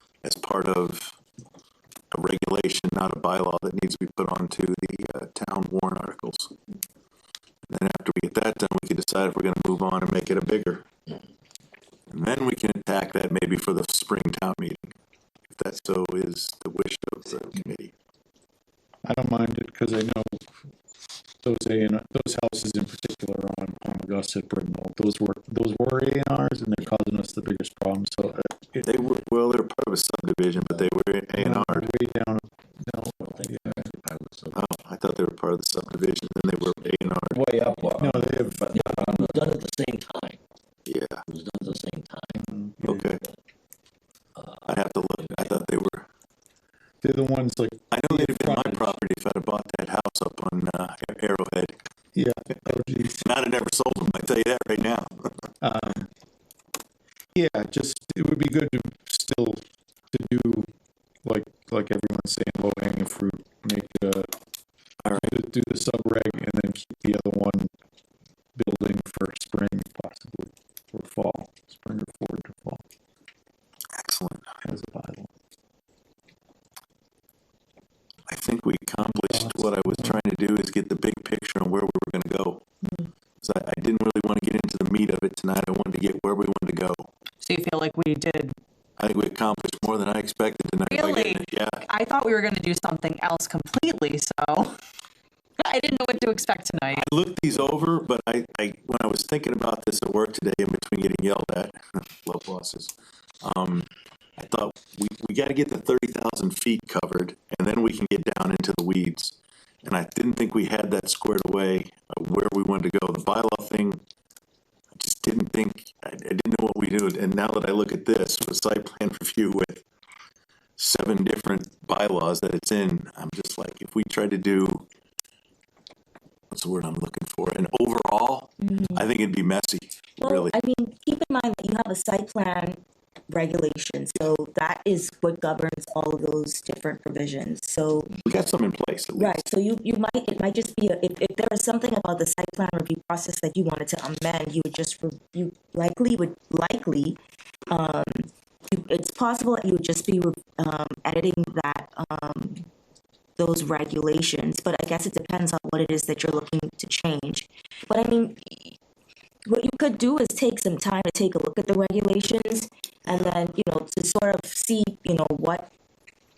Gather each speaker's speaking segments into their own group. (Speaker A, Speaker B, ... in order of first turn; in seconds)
Speaker A: 0.2-1.1, 2.1-6.5, 7.7-10.9, 12.1-14.9, 15.5-17.9, 28.8-31.9, 34.5-37.4, 40.9-41.2, 42.9-43.2, 44.7-46.1, 47.9-51.8, 53.2-55.5, 65.0-65.3, 74.0-74.5, 78.3-82.6, 83.4-87.1, 89.0-91.9, 96.9-114.0, 115.0-119.8, 120.8-124.8, 126.5-130.6, 138.2-139.5
Speaker B: 19.0-20.5, 21.4-28.9, 31.4-33.8, 37.3-39.5, 42.4-43.1, 47.0-49.0, 52.1-53.3, 55.6-56.1, 57.4-60.7, 61.2-64.3, 65.2-67.7, 68.6-72.8, 74.6-75.3, 79.3-80.2
Speaker C: 33.2-34.7, 37.6-40.4, 41.3-42.4, 44.4-45.6
Speaker D: 87.4-88.6, 90.9-94.8, 95.6-97.1
Speaker E: 128.6-129.2, 130.2-138.3, 139.2-152.7, 153.4-158.8, 159.5-165.7